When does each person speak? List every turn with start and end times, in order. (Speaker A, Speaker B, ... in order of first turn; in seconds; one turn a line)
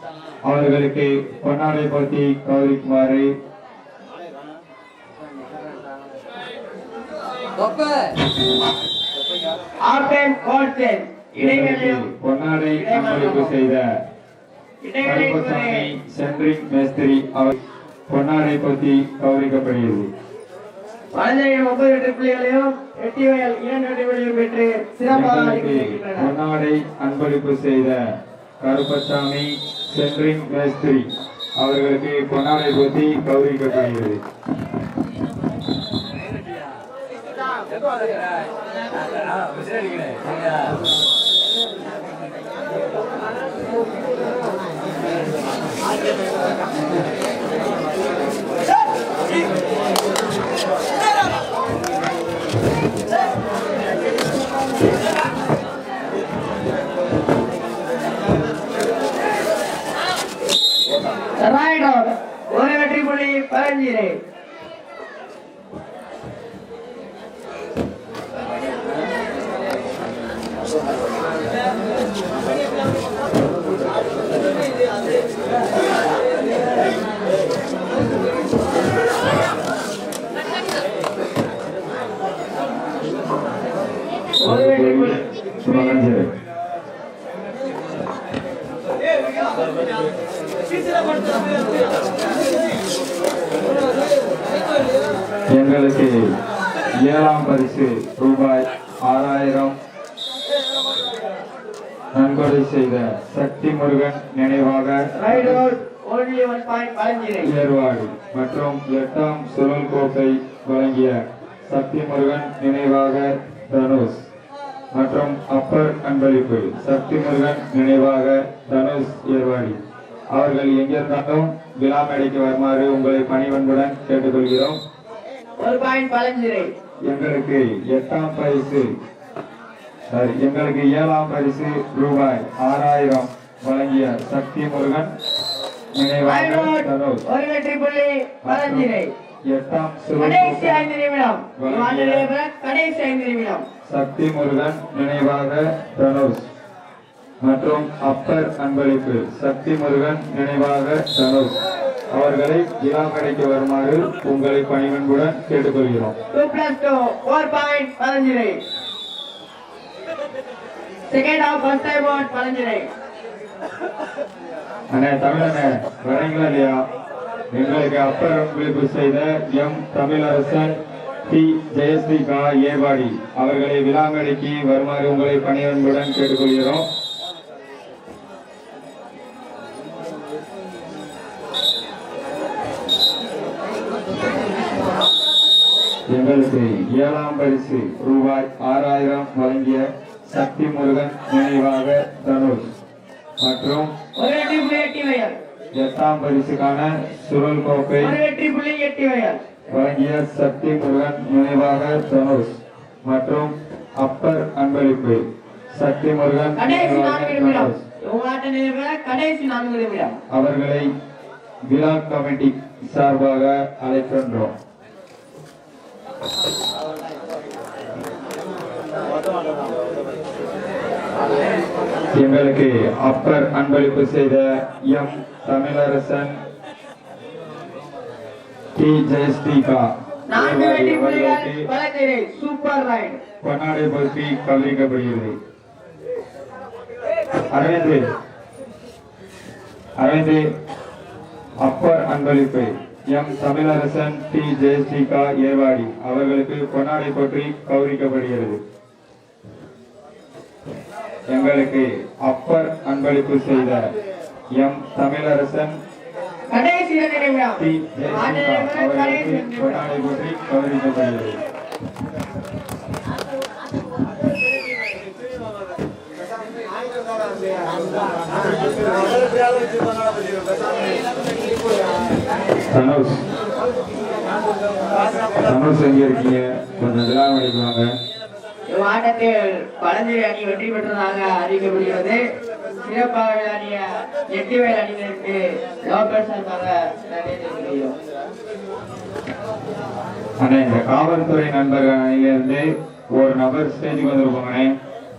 Speaker A: 0.5-3.3
Speaker B: 9.8-12.1
Speaker A: 11.4-13.9
Speaker B: 12.7-13.5
Speaker B: 14.8-15.9
Speaker A: 15.0-17.6
Speaker A: 18.1-20.1
Speaker B: 21.1-26.3
Speaker A: 25.1-28.0
Speaker A: 28.6-34.2
Speaker B: 61.4-64.2
Speaker B: 84.4-86.0
Speaker A: 84.4-86.3
Speaker A: 95.5-96.2
Speaker A: 97.0-99.8
Speaker A: 102.1-105.7
Speaker B: 105.1-107.5
Speaker A: 107.4-114.3
Speaker A: 114.9-119.8
Speaker A: 120.3-124.8
Speaker B: 125.6-126.7
Speaker A: 127.1-128.9
Speaker A: 130.1-135.1
Speaker A: 135.9-137.2
Speaker B: 136.2-139.1
Speaker A: 138.4-138.9
Speaker A: 139.5-140.8
Speaker B: 140.2-143.7
Speaker A: 141.6-142.3
Speaker A: 143.8-146.5
Speaker A: 147.4-151.6
Speaker A: 152.1-156.2
Speaker B: 156.3-158.6
Speaker B: 161.1-162.9
Speaker A: 164.9-166.8
Speaker A: 167.5-170.8
Speaker A: 171.3-176.9
Speaker A: 186.1-192.7
Speaker A: 193.4-193.9
Speaker B: 194.1-195.3
Speaker A: 195.7-198.2
Speaker B: 198.0-199.4
Speaker A: 199.7-205.2
Speaker A: 205.7-207.8
Speaker B: 206.6-210.2
Speaker A: 210.3-210.9
Speaker A: 211.7-214.5
Speaker A: 222.1-226.4
Speaker A: 228.8-231.7
Speaker B: 230.3-233.2
Speaker A: 233.4-235.3
Speaker A: 237.5-238.2
Speaker A: 240.0-240.4
Speaker A: 241.6-248.6
Speaker A: 251.3-253.9
Speaker A: 254.6-255.8
Speaker B: 256.5-259.8
Speaker A: 257.6-261.4
Speaker A: 272.7-273.2
Speaker A: 275.4-277.9
Speaker B: 278.7-282.2
Speaker B: 282.8-287.9
Speaker A: 290.4-294.8